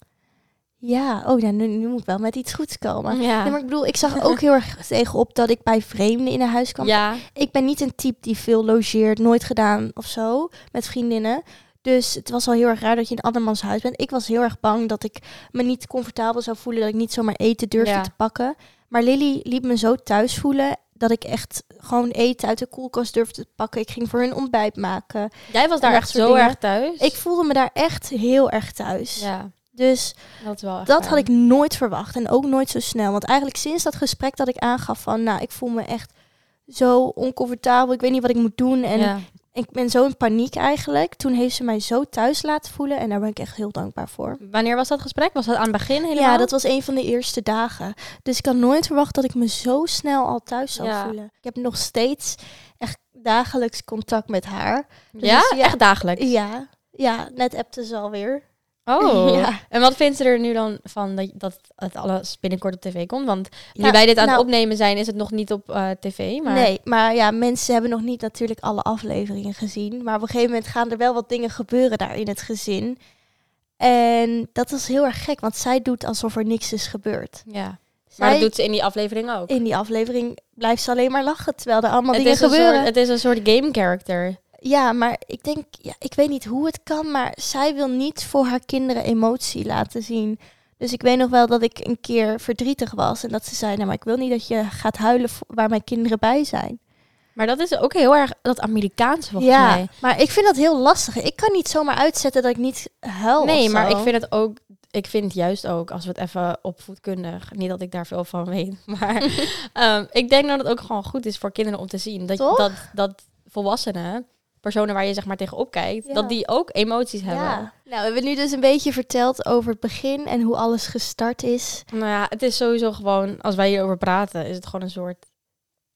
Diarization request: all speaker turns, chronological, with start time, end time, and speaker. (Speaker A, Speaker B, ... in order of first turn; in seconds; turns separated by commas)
Speaker A: 0.8-30.2, Speaker B: 3.1-3.6, Speaker B: 6.8-7.3, Speaker B: 17.8-18.1, Speaker B: 25.5-27.1, Speaker B: 29.2-29.5, Speaker B: 30.4-31.3, Speaker A: 30.9-36.1, Speaker A: 36.7-44.4, Speaker B: 39.0-39.3, Speaker B: 44.4-46.5, Speaker A: 46.1-58.4, Speaker B: 50.8-51.1, Speaker B: 55.1-56.3, Speaker B: 58.9-66.7, Speaker A: 59.0-59.6, Speaker A: 63.8-64.4, Speaker A: 66.5-73.0, Speaker A: 73.8-77.5, Speaker B: 77.5-79.5, Speaker A: 78.1-78.5, Speaker A: 79.5-82.9, Speaker B: 82.1-84.4, Speaker A: 84.6-96.8, Speaker B: 97.4-99.9, Speaker A: 99.4-104.1, Speaker B: 103.4-117.7, Speaker A: 112.4-112.8, Speaker A: 116.1-116.4, Speaker A: 117.2-121.8, Speaker B: 121.9-125.2